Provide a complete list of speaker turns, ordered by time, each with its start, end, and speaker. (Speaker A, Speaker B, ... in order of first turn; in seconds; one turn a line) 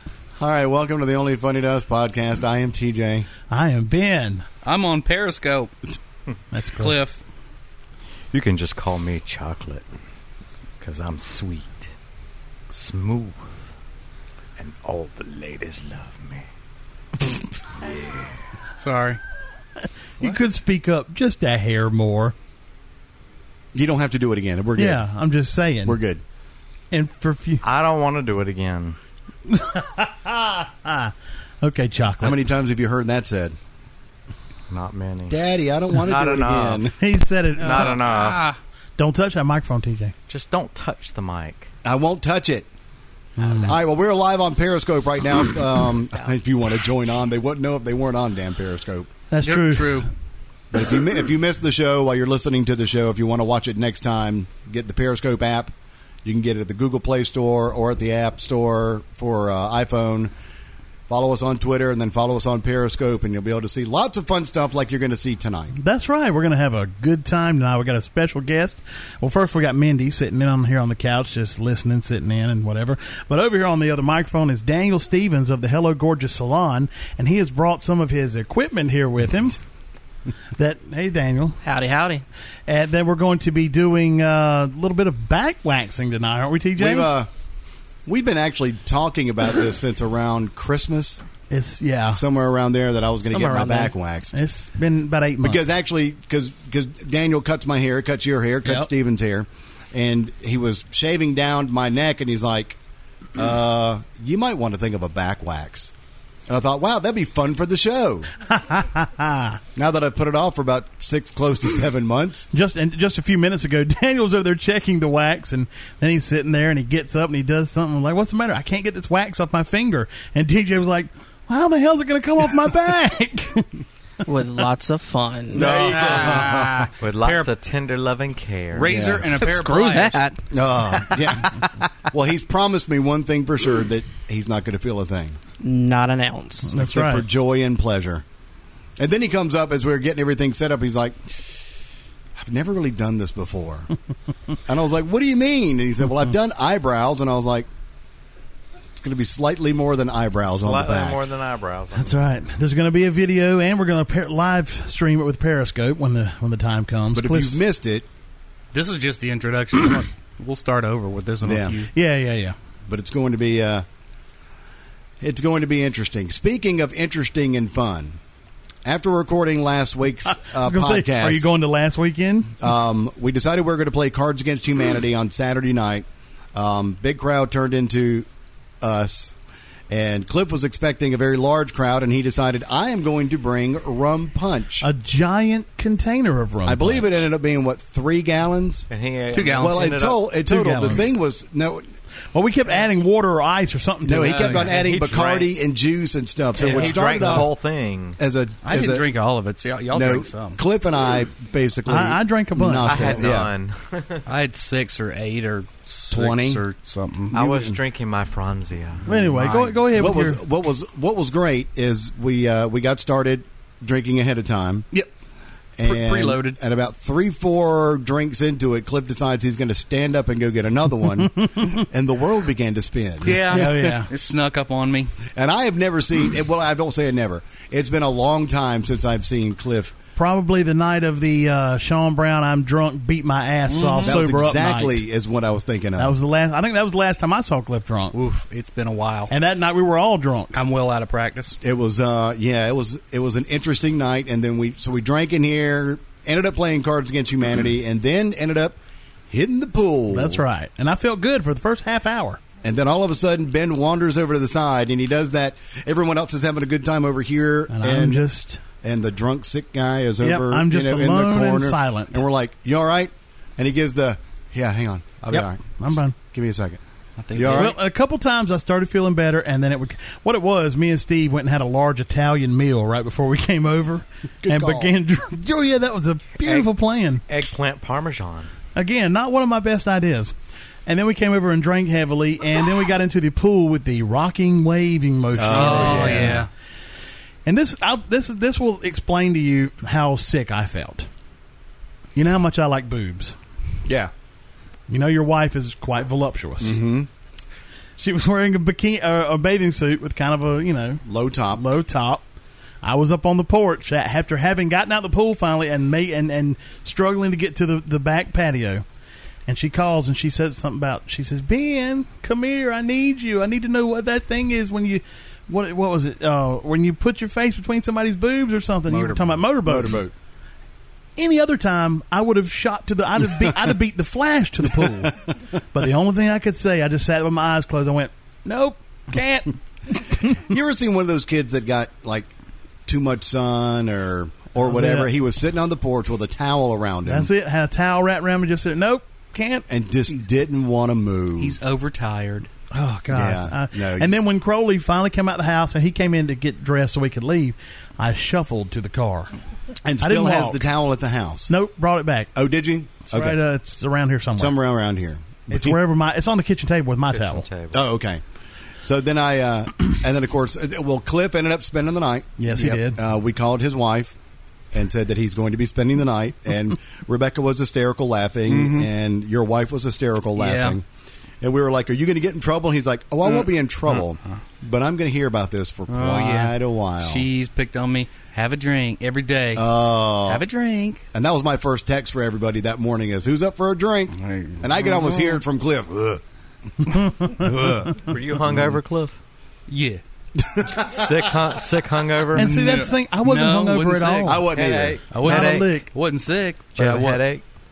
Speaker A: 0.4-3.3
Speaker B: 3.5-4.4
Speaker C: 4.6-5.7
Speaker B: 6.5-7.0
Speaker C: 6.8-7.2
Speaker D: 8.3-9.8
Speaker D: 10.8-11.9
Speaker D: 12.7-13.7
Speaker D: 14.6-16.5
Speaker D: 17.7-18.4
Speaker C: 18.8-19.2
Speaker B: 20.2-22.3
Speaker A: 23.7-25.0
Speaker B: 24.8-26.0
Speaker A: 25.8-26.2
Speaker B: 26.9-27.6
Speaker D: 27.6-29.0
Speaker B: 29.5-32.4
Speaker A: 32.2-33.5
Speaker D: 34.7-35.4
Speaker A: 35.3-36.9
Speaker D: 36.0-36.8
Speaker B: 37.0-38.0
Speaker D: 37.6-38.5
Speaker C: 37.6-38.6
Speaker B: 39.0-40.1
Speaker D: 40.3-41.7
Speaker A: 41.8-42.7
Speaker B: 43.4-43.8
Speaker A: 43.6-49.1
Speaker B: 49.3-50.1
Speaker C: 49.4-50.1
Speaker A: 50.7-55.7
Speaker A: 56.2-60.3
Speaker A: 61.1-65.8
Speaker B: 65.8-79.6
Speaker B: 80.6-81.6
Speaker E: 81.6-82.2
Speaker B: 82.7-87.1
Speaker A: 86.8-87.3
Speaker A: 88.0-91.2
Speaker B: 91.5-92.2
Speaker A: 92.1-94.4
Speaker E: 93.3-93.9
Speaker B: 94.3-95.7
Speaker A: 95.4-102.8
Speaker A: 103.3-105.9
Speaker A: 106.5-108.3
Speaker B: 108.5-109.6
Speaker A: 109.7-112.5
Speaker B: 112.5-123.8
Speaker E: 124.2-125.8
Speaker A: 125.5-126.9
Speaker C: 125.5-127.5
Speaker D: 127.0-128.9
Speaker C: 128.7-130.2
Speaker A: 128.8-129.3
Speaker E: 129.3-130.4
Speaker A: 130.5-131.6
Speaker A: 132.1-135.4
Speaker E: 135.6-136.7
Speaker B: 136.7-137.3
Speaker A: 136.8-138.2
Speaker A: 139.0-141.4
Speaker A: 142.3-143.9
Speaker A: 144.7-147.7
Speaker A: 148.9-151.2
Speaker D: 150.5-152.2
Speaker B: 151.9-157.6
Speaker A: 157.1-158.1
Speaker C: 158.7-161.9
Speaker A: 161.4-161.8
Speaker B: 161.9-162.5
Speaker A: 162.9-163.8
Speaker A: 165.2-168.2
Speaker A: 168.8-171.5
Speaker B: 170.3-172.6
Speaker A: 172.6-178.3
Speaker A: 178.8-179.3
Speaker A: 179.9-184.9
Speaker B: 184.8-187.1
Speaker A: 186.6-188.9
Speaker D: 188.9-190.2
Speaker C: 189.3-190.0
Speaker A: 189.4-191.9
Speaker B: 190.4-191.1
Speaker B: 192.3-194.7
Speaker A: 194.0-197.5
Speaker C: 194.2-194.8
Speaker D: 194.7-195.5
Speaker D: 196.6-198.2
Speaker C: 196.6-197.4
Speaker A: 198.2-199.1
Speaker C: 198.6-200.6
Speaker A: 199.9-203.5
Speaker B: 201.9-203.1
Speaker D: 202.8-204.2
Speaker C: 204.3-207.7
Speaker A: 206.1-206.6
Speaker D: 207.3-209.0
Speaker C: 209.1-209.8
Speaker B: 209.1-210.4
Speaker A: 209.9-214.9
Speaker A: 215.8-224.0
Speaker C: 215.8-216.6
Speaker C: 223.2-225.2
Speaker B: 223.5-224.1
Speaker A: 225.3-229.9
Speaker B: 230.2-235.0
Speaker C: 233.7-234.2
Speaker A: 234.0-236.2
Speaker B: 236.0-238.2
Speaker C: 238.1-239.3
Speaker B: 239.3-240.6
Speaker C: 240.5-241.6
Speaker A: 241.6-248.8
Speaker A: 249.3-250.4
Speaker B: 250.1-252.4
Speaker A: 252.6-258.2
Speaker B: 257.7-258.6
Speaker A: 258.8-266.8
Speaker B: 260.2-262.2
Speaker B: 265.3-266.1
Speaker C: 267.2-267.8
Speaker A: 267.3-267.7
Speaker B: 267.5-277.2
Speaker A: 274.4-274.9
Speaker D: 276.4-276.7
Speaker D: 277.3-278.5
Speaker B: 278.7-280.3
Speaker B: 280.9-286.4
Speaker A: 285.4-286.4
Speaker C: 285.5-286.5
Speaker B: 287.4-291.1
Speaker B: 292.1-293.4
Speaker A: 293.9-294.1
Speaker B: 294.9-296.8
Speaker A: 296.6-297.1
Speaker B: 298.0-301.0
Speaker A: 301.0-301.6
Speaker B: 301.5-302.2
Speaker B: 302.8-308.8
Speaker B: 309.5-320.0
Speaker C: 318.9-319.4
Speaker A: 319.6-320.1
Speaker B: 321.2-325.1
Speaker A: 323.3-323.7
Speaker A: 324.8-325.1
Speaker B: 325.7-330.1
Speaker A: 330.2-332.3
Speaker A: 332.9-337.3
Speaker B: 334.6-335.1
Speaker B: 337.1-339.6
Speaker A: 339.7-341.6
Speaker C: 341.4-342.5
Speaker B: 342.7-349.3
Speaker A: 343.1-344.2
Speaker A: 349.8-351.5
Speaker B: 350.0-350.6
Speaker B: 351.5-352.3
Speaker A: 352.3-353.4
Speaker B: 353.1-354.6
Speaker A: 354.4-355.8
Speaker B: 355.5-357.4
Speaker D: 357.1-357.8
Speaker A: 357.7-358.2
Speaker A: 358.8-364.1
Speaker B: 362.4-363.0
Speaker A: 364.7-370.8
Speaker C: 368.5-368.9
Speaker C: 370.4-370.8
Speaker A: 371.4-377.3
Speaker C: 375.9-381.0
Speaker A: 379.5-380.4
Speaker A: 381.1-386.2
Speaker C: 384.1-385.4
Speaker A: 387.1-388.0
Speaker D: 387.9-389.2
Speaker C: 389.7-390.0
Speaker A: 390.4-391.2
Speaker D: 390.8-392.8
Speaker B: 392.3-394.4
Speaker C: 392.3-394.4
Speaker A: 394.2-395.4
Speaker D: 394.5-395.1
Speaker C: 395.1-397.2
Speaker B: 395.2-395.9
Speaker D: 396.7-397.4